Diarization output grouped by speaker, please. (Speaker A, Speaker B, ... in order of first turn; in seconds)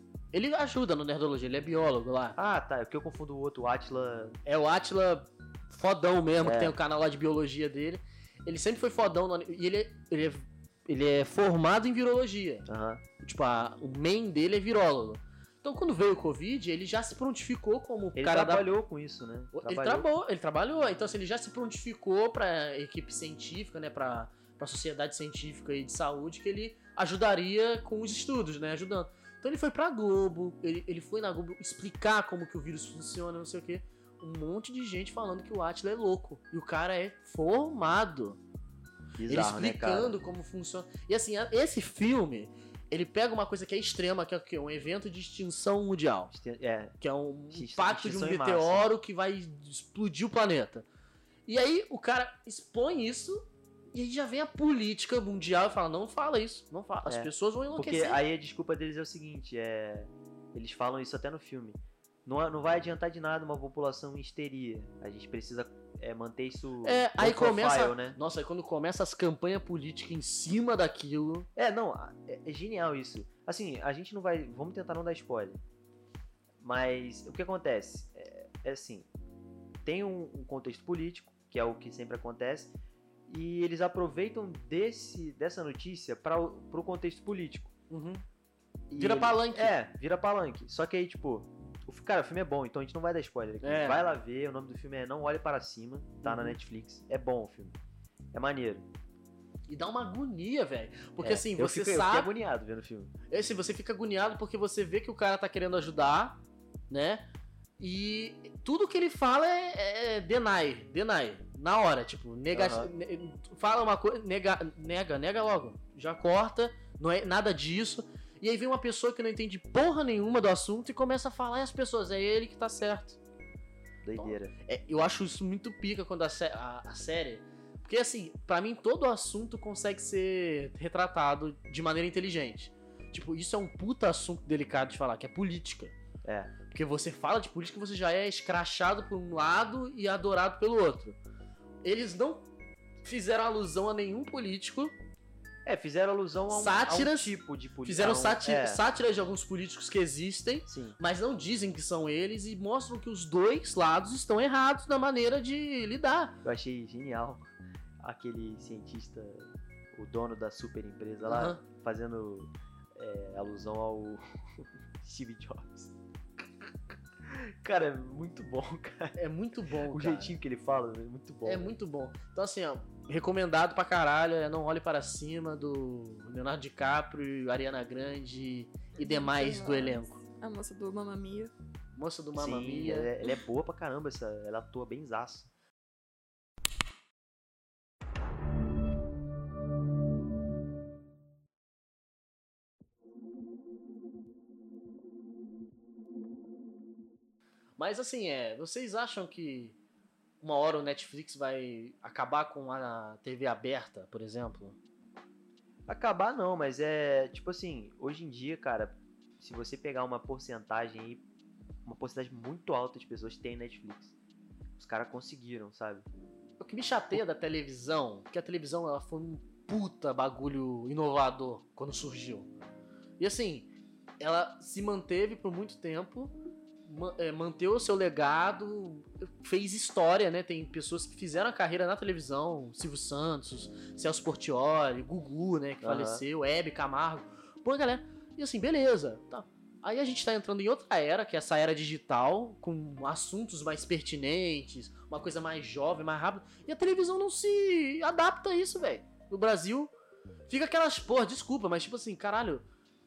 Speaker A: 0.3-2.4, 4.5-12.7, 13.2-18.7, 19.5-38.4, 39.3-46.3, 47.0-50.9, 51.5-58.2, 66.8-71.5, 87.9-88.2, 89.0-89.8, 93.6-94.0, 96.2-96.6, 99.7-102.3, 103.3-107.3, 107.8-123.2, 124.2-135.9, 136.7-141.2, 141.8-142.5, 143.0-144.9, 146.5-147.3, 147.8-156.4, 161.3-161.6, 169.2-170.4, 171.4-180.2, 182.0-183.1, 197.8-199.8, 200.4-204.8, 216.6-222.5, 223.2-226.3, 226.8-249.9, 250.5-252.7
Speaker B: 2.4-4.4, 6.4-6.8, 12.7-13.0, 18.2-20.1, 39.2-40.2, 46.3-47.0, 47.5-48.9, 57.1-68.2, 71.6-75.6, 76.6-79.1, 79.8-87.7, 88.9-97.8, 98.3-98.9, 101.2-103.1, 112.5-112.9, 124.0-124.5, 136.2-136.5, 145.7-148.8, 150.7-151.0, 156.4-157.5, 158.0-165.9, 167.2-169.2, 169.9-171.8, 182.3-185.5, 205.9-211.2, 211.8-214.2, 214.8-216.1, 235.8-236.2
Speaker C: 179.0-181.5